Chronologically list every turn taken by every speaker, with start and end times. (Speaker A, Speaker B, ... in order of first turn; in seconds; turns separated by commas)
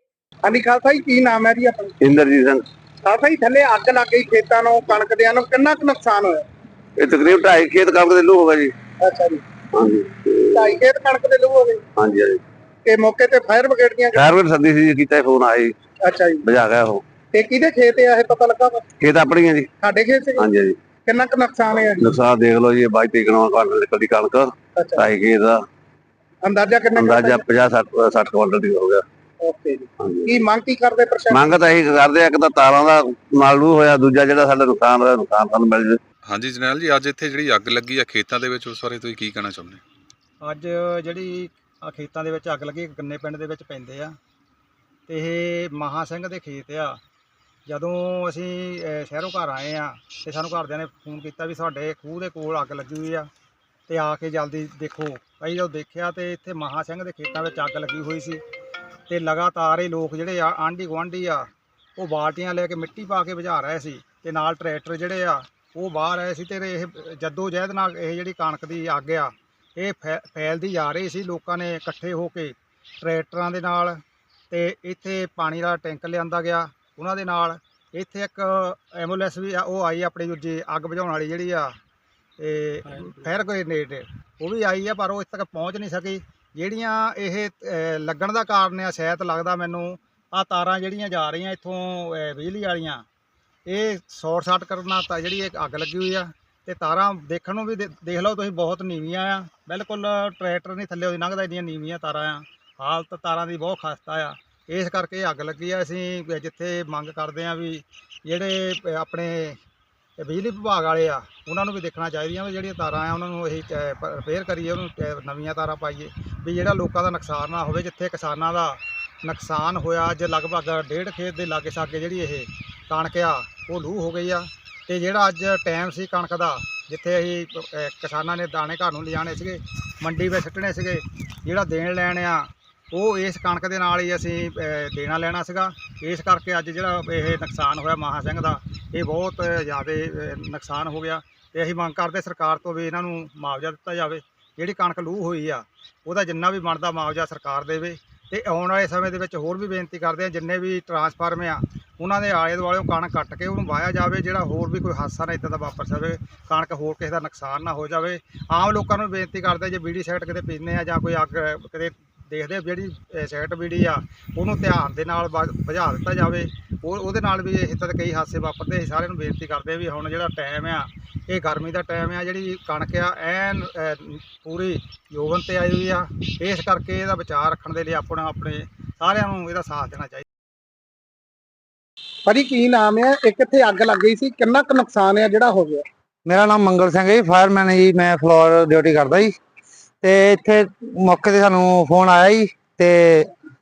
Speaker A: 0.4-1.9, Speaker B: 2.0-2.6, Speaker A: 3.0-6.4, Speaker B: 7.0-8.7, Speaker A: 9.0-9.4, Speaker B: 9.7-10.6, Speaker A: 10.5-11.8, Speaker B: 12.0-12.4, Speaker A: 12.8-14.2, Speaker B: 14.1-15.7, Speaker A: 16.0-16.4, Speaker B: 16.4-17.0, Speaker A: 17.3-18.9, Speaker B: 19.0-19.7, Speaker A: 19.8-20.5, Speaker B: 20.4-20.8, Speaker A: 21.1-22.1, Speaker B: 22.0-25.6, Speaker A: 24.8-25.1, Speaker A: 26.4-27.5, Speaker B: 26.9-29.0, Speaker A: 29.4-31.5, Speaker B: 31.3-36.0, Speaker C: 36.2-39.8, Speaker D: 40.4-44.1, Speaker D: 45.1-47.0, Speaker D: 47.7-53.3, Speaker D: 53.9-58.4, Speaker D: 59.1-81.7, Speaker D: 82.4-93.0, Speaker D: 93.7-109.6, Speaker D: 110.2-180.2, Speaker A: 182.2-185.8, Speaker E: 186.2-189.3, Speaker E: 190.0-193.3